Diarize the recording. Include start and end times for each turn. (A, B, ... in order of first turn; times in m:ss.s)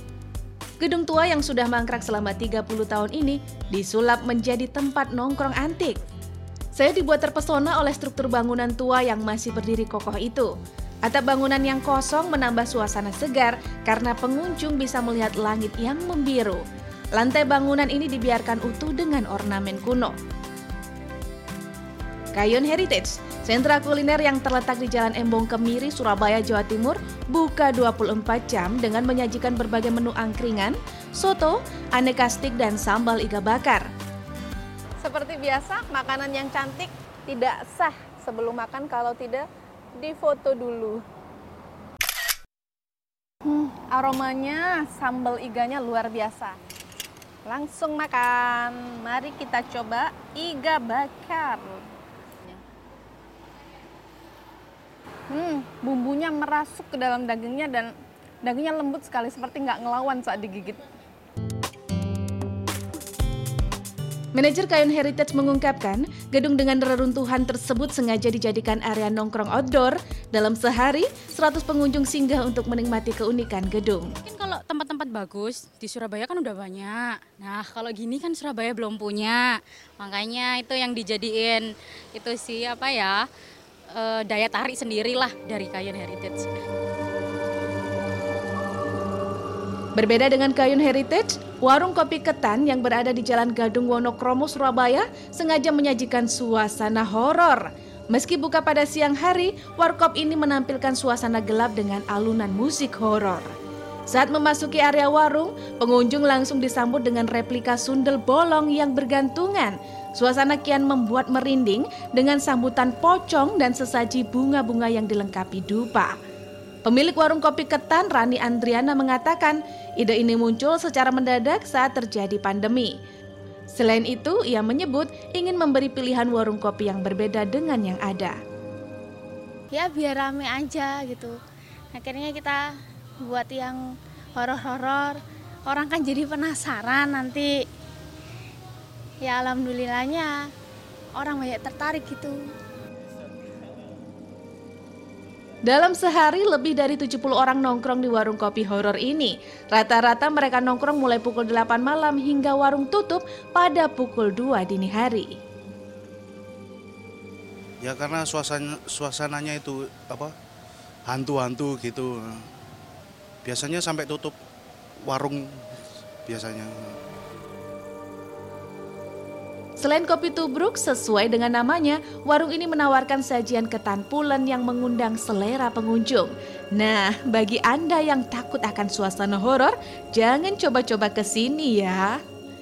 0:00.8-0:06.0 A
0:06.7-0:10.5 A
0:11.0-0:16.6 A
0:17.2-0:20.1 A
0:22.3-0:33.9 A
0:35.0-0:41.0 B
0:43.4-0:46.6 B
0:47.4-0:51.9 B
0:55.3-1:00.8 B
1:04.3-1:14.1 A
1:14.2-1:23.2 C
1:23.9-1:26.5 C
1:30.0-1:43.5 A
1:44.1-1:56.1 A
1:56.8-2:02.9 A
2:03.7-2:08.4 A
2:09.7-2:11.3 D
2:11.9-2:12.6 D
2:13.2-2:13.8 D
2:14.4-2:17.5 D
2:19.2-2:20.3 D
2:21.2-2:22.4 D
2:25.6-2:35.3 A
2:37.8-2:40.3 E
2:41.0-2:42.5 E
2:43.4-2:44.4 E
2:45.0-2:47.0 E
2:49.8-3:02.2 A